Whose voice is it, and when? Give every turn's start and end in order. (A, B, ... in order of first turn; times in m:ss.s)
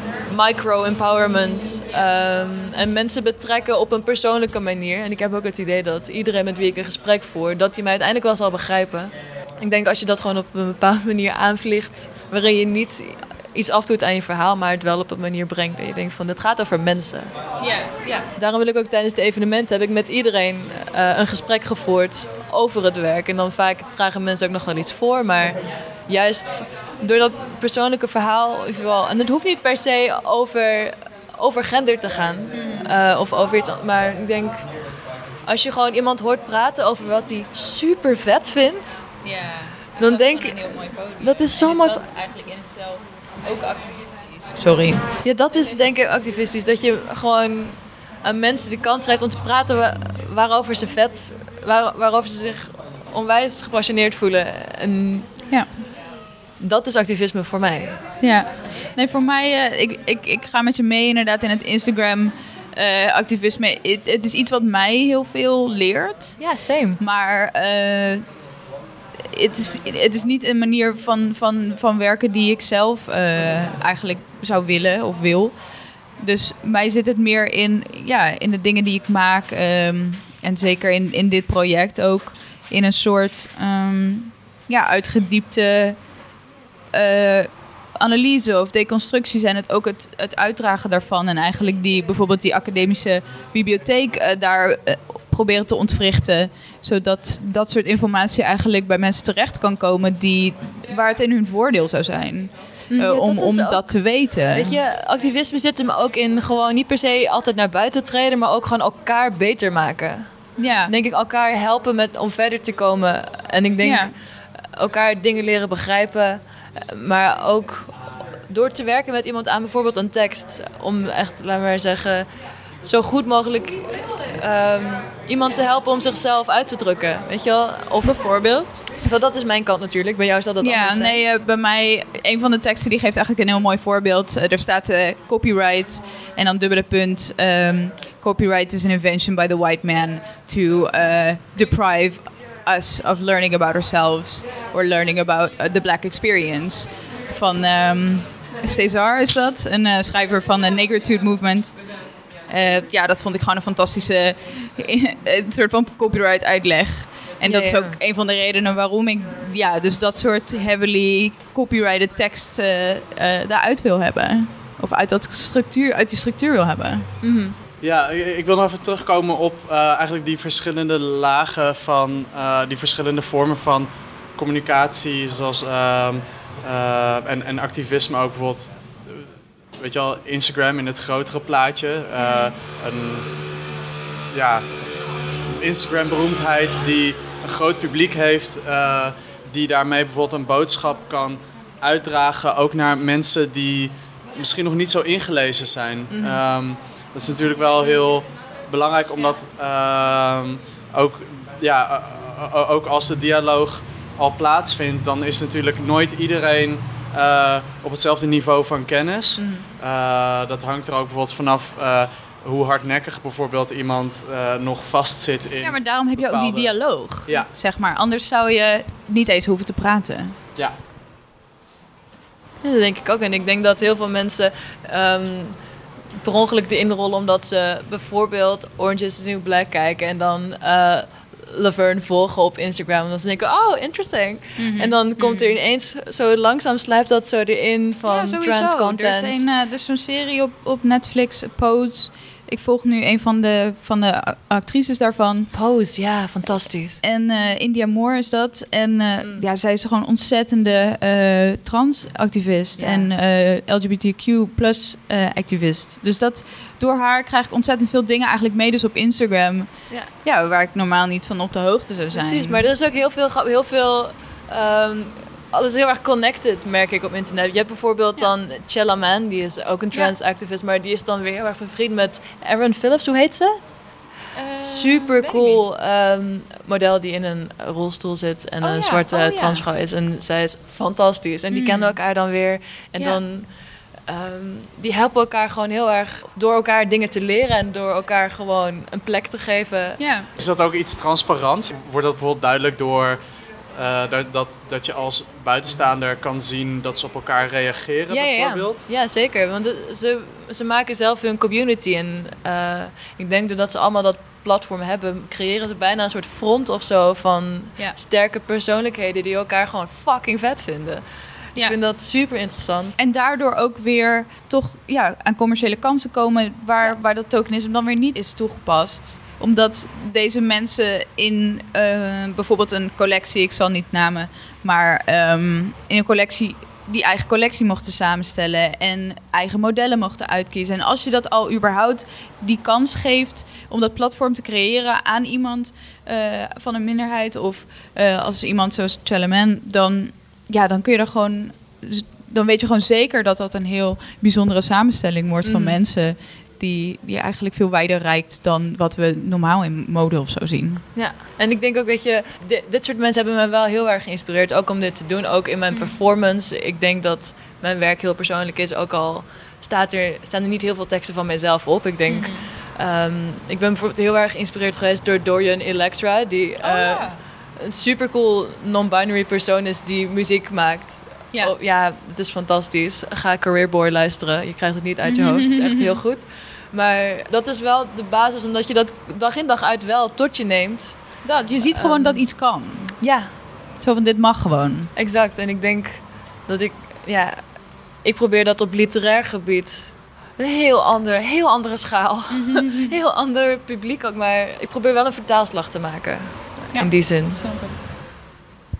0:00.3-0:17.3 A
0:17.6-0:18.2 B
0:18.3-0:34.6 A
0:32.5-0:32.9 B
0:35.4-0:39.0 A
0:39.2-0:45.0 B
0:40.0-0:40.6 A
0:41.2-0:42.0 A
0:45.2-0:55.3 A
0:55.5-0:55.8 B
0:56.6-0:57.9 A
0:58.2-1:06.4 B
1:06.4-1:07.0 A
1:07.0-1:08.2 B
1:09.3-1:15.5 B
1:16.2-1:26.0 B
1:26.9-1:44.8 B
1:42.9-1:54.1 A
1:50.6-1:50.9 B
1:53.8-1:54.1 B
1:54.7-1:57.9 A
1:58.5-2:02.2 A
2:02.8-2:08.2 A
2:08.0-2:08.8 B
2:09.0-2:11.2 A
2:10.6-2:31.8 B
2:32.5-2:47.1 B
2:37.4-2:38.0 A
2:47.2-2:47.6 A
2:47.8-3:03.3 C
3:02.2-3:02.5 B
3:04.3-3:04.7 C
3:05.5-3:37.5 C
3:16.1-3:16.4 A
3:29.4-3:29.6 A
3:35.6-3:40.3 B
3:42.6-3:45.6 A
3:46.2-3:59.4 A
3:54.6-3:55.6 B
3:58.1-4:05.5 B
4:05.5-4:07.0 A
4:07.0-4:19.7 B
4:12.8-4:13.1 A
4:20.2-4:22.7 B
4:22.1-4:33.7 A
4:34.3-4:35.6 B
4:34.6-4:43.5 A
4:38.6-4:39.6 B
4:41.5-4:42.0 B
4:44.1-4:50.0 A
4:50.0-4:50.3 B
4:50.4-4:53.2 C
4:53.7-4:58.8 C
4:58.1-5:11.0 A
5:11.5-5:13.0 A
5:13.0-5:50.8 B
5:45.4-5:45.8 A
5:50.9-6:21.2 A
6:02.1-6:02.5 B
6:06.6-6:07.2 B
6:15.0-6:16.0 B
6:21.2-6:23.0 B
6:21.7-6:22.2 A
6:23.0-6:23.3 A
6:23.8-6:24.9 B
6:25.0-6:27.4 A
6:28.0-6:37.4 A
6:32.3-6:33.0 B
6:36.7-6:37.8 B